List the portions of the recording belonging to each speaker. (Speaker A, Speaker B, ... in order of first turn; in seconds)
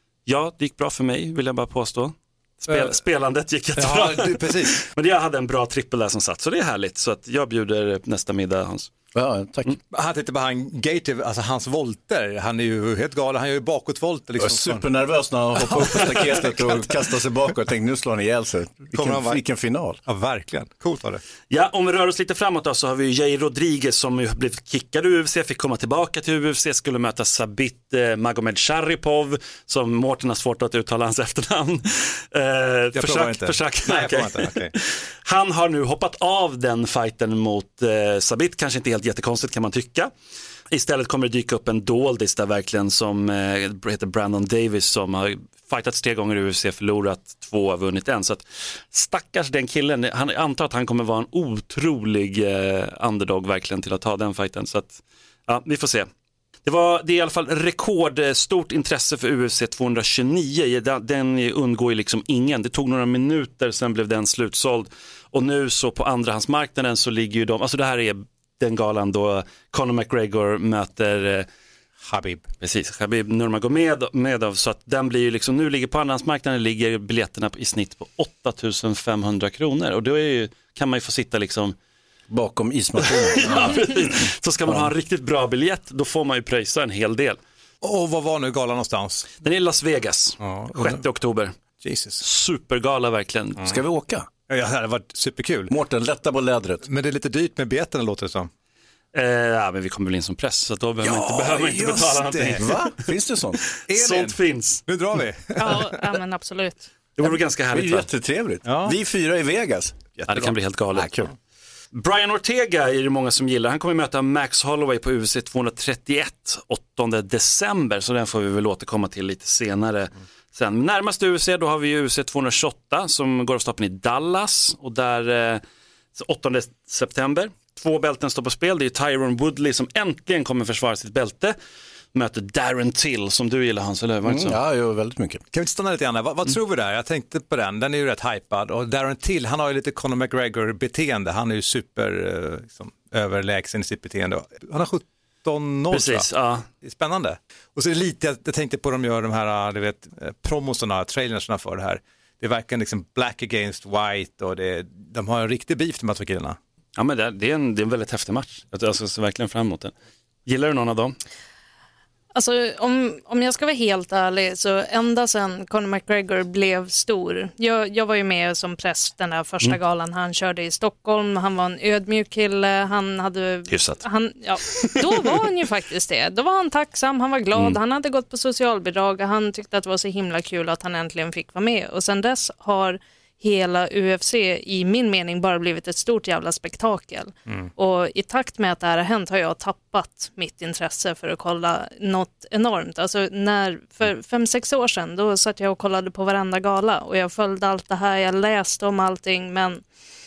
Speaker A: 0.2-8.9, 21.5-40.1, 40.7-56.1, 56.6-71.5, 72.6-81.8, 83.0-87.4, 89.4-91.6, 92.2-93.7, 99.1-102.9, 103.8-104.8, 107.2-108.1, 110.3-111.3, 111.9-125.6, 126.1-131.5, 132.1-134.6, 145.9-146.7, 156.9-159.9, 160.4-161.2, 173.7-174.0, 174.7-175.3
Speaker B: 2.7-3.0, 3.8-4.8, 9.9-14.8, 18.9-19.4, 20.1-21.2, 32.9-34.7, 72.0-72.4, 87.8-89.2, 90.4-91.0, 91.8-92.2, 94.5-95.7, 96.8-98.5, 101.0-102.7, 103.9-104.3, 104.8-106.1, 108.7-108.9, 135.5-146.3, 146.8-156.6
Speaker C: 9.1-9.7, 14.4-20.0, 82.3-84.0, 93.6-94.3, 95.7-96.8, 102.6-103.6, 107.7-111.3, 134.2-135.4
Speaker D: 105.6-106.9, 162.3-199.8